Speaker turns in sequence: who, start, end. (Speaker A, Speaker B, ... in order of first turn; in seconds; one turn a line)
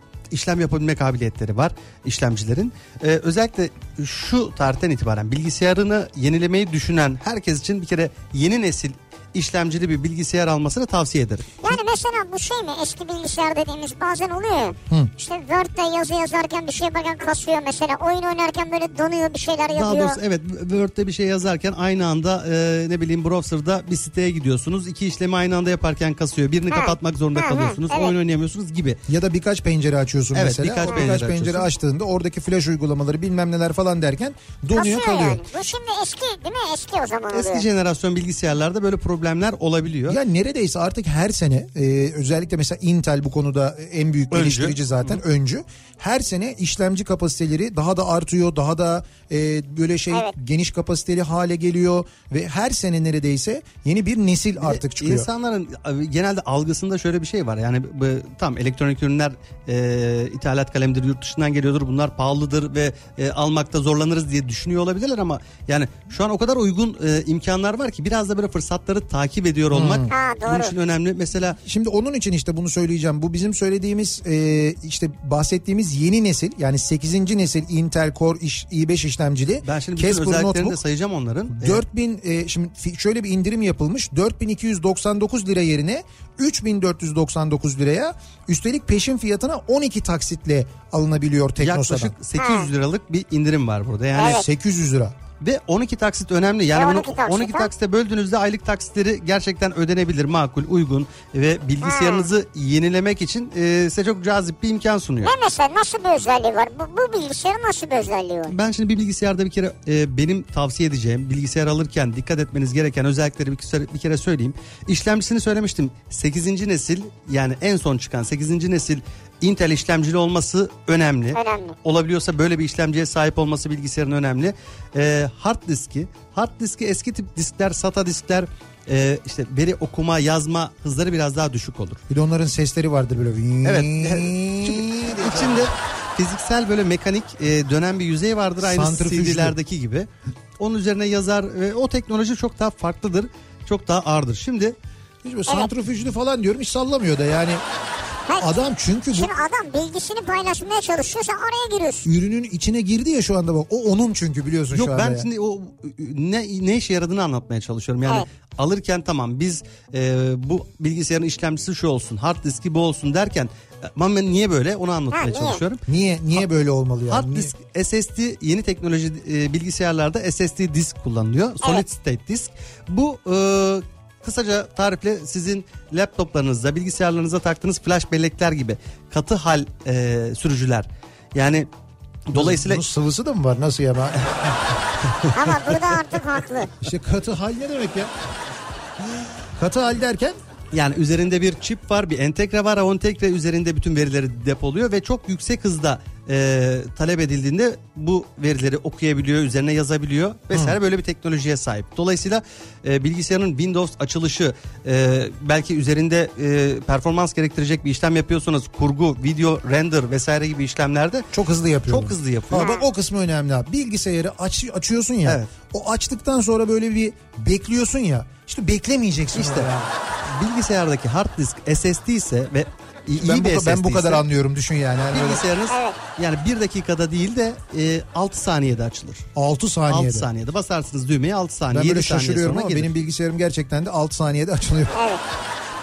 Speaker A: 0.3-11.7
Speaker B: 11.6-20.2
Speaker A: 19.7-29.0
Speaker B: 26.7-28.1
Speaker C: 29.1-35.4
Speaker A: 30.3-31.7
Speaker B: 30.9-31.1
Speaker B: 34.7-37.6
Speaker A: 37.3-40.2
Speaker C: 40.1-55.3
Speaker A: 44.3-45.2
Speaker A: 54.6-71.6
Speaker C: 69.7-70.1
Speaker B: 70.1-70.7
Speaker C: 71.6-80.8
Speaker A: 79.6-81.8
Speaker C: 81.5-92.1
Speaker A: 91.6-94.4
Speaker B: 92.3-92.7
Speaker B: 94.1-94.5
Speaker C: 94.2-95.1
Speaker A: 95.4-105.3
Speaker B: 96.7-97.7
Speaker B: 101.8-102.3
Speaker B: 105.2-108.5
Speaker A: 108.5-132.0
Speaker B: 121.3-121.8
Speaker C: 132.1-135.7
Speaker A: 133.6-144.8
Speaker C: 138.6-139.6
Speaker C: 145.2-147.6
Speaker B: 148.3-152.1
Speaker C: 148.4-149.3
Speaker C: 152.1-155.3
Speaker A: 154.7-165.8
Speaker B: 165.1-165.6
Speaker C: 165.9-167.5
Speaker A: 167.1-181.7
Speaker A: 182.3-182.8
Speaker C: 182.3-184.2
Speaker A: 185.2-185.8
Speaker B: 185.3-186.7
Speaker C: 186.8-188.1
Speaker C: 189.6-190.3
Speaker A: 190.7-211.3
Speaker C: 200.5-200.8
Speaker C: 211.3-219.9
Speaker A: 211.9-212.7
Speaker B: 212.6-212.8
Speaker A: 215.2-215.5
Speaker A: 219.3-219.7
Speaker A: 220.2-224.2
Speaker C: 223.2-225.4
Speaker A: 225.1-229.2
Speaker B: 225.7-226.0
Speaker C: 229.3-230.3
Speaker A: 229.9-232.9
Speaker C: 231.7-234.9
Speaker B: 234.9-235.2